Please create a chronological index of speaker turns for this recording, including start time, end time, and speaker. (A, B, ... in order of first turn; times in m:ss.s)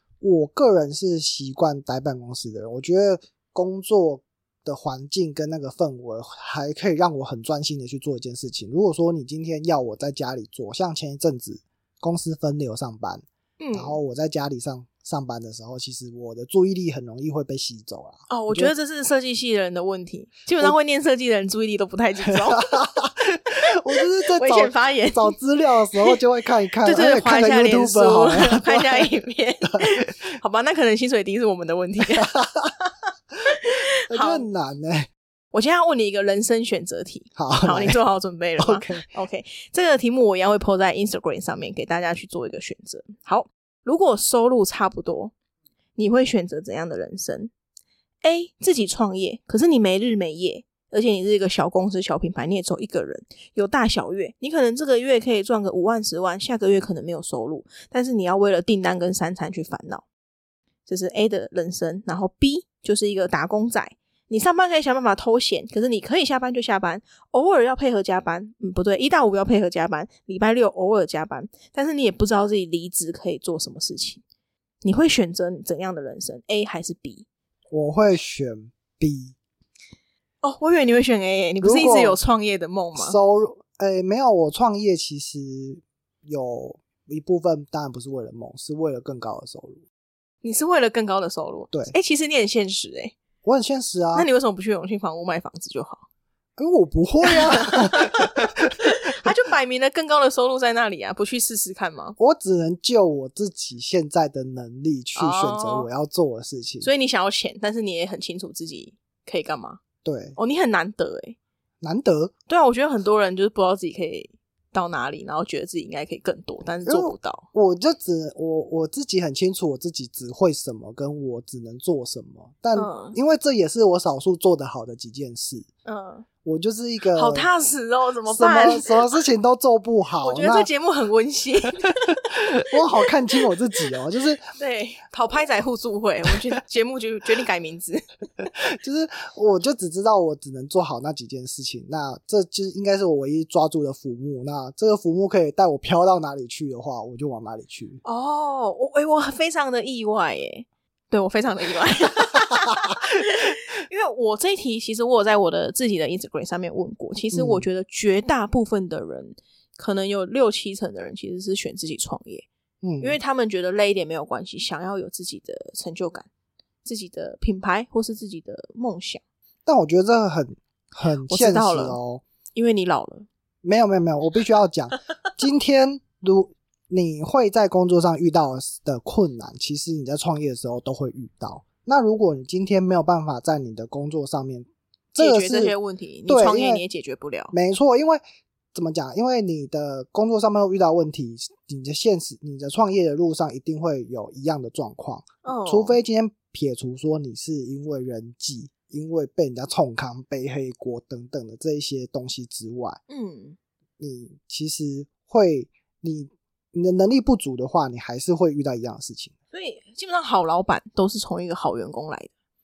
0:00.2-0:18.7 A
0:13.6-0:14.0 B
0:18.3-0:22.8 B
0:22.4-0:29.1 A
0:23.9-0:25.4 B
0:26.8-0:32.4 B
0:32.1-0:32.7 A
0:33.5-0:34.5 B
0:33.6-0:35.1 A
0:35.5-0:45.3 B
0:37.3-0:38.0 A
0:38.6-0:39.1 A
0:46.0-0:47.5 B
0:48.2-1:00.0 B
1:00.9-1:14.2 B
1:14.8-1:17.3 B
1:17.7-1:19.4 A
1:20.4-1:23.2 B
1:21.6-1:22.2 A
1:23.0-1:29.8 A
1:30.4-1:33.2 B
1:33.4-1:34.3 A
1:34.1-1:36.0 B
1:36.6-1:38.7 A
1:37.3-1:42.2 B
1:42.2-1:46.9 A
1:45.2-1:45.9 B
1:46.8-1:49.8 B
1:50.0-1:50.4 A
1:50.4-1:51.4 B
1:51.8-1:52.3 A
1:52.5-1:57.4 B
1:56.8-2:05.7 A
2:02.7-2:03.2 B
2:05.8-2:06.3 B
2:06.4-2:07.5 A
2:07.1-2:09.2 B
2:08.3-2:10.7 A
2:10.2-2:12.2 B
2:12.4-2:14.4 A
2:12.9-2:13.4 B
2:14.6-2:18.0 B
2:18.5-2:28.0 A
2:28.0-2:42.5 B
2:37.3-2:37.6 A
2:42.8-2:43.2 A
2:43.0-2:46.3 B
2:46.8-2:49.2 B
2:49.6-2:52.2 A
2:51.2-2:52.0 B
2:52.5-2:53.3 B
2:53.6-3:05.8 A
3:05.2-3:07.5 B
3:06.3-3:06.8 A
3:07.5-3:08.2 A
3:08.7-3:23.0 A
3:15.4-3:16.0 B
3:23.1-3:23.6 B
3:24.0-3:29.3 A
3:29.5-3:32.3 B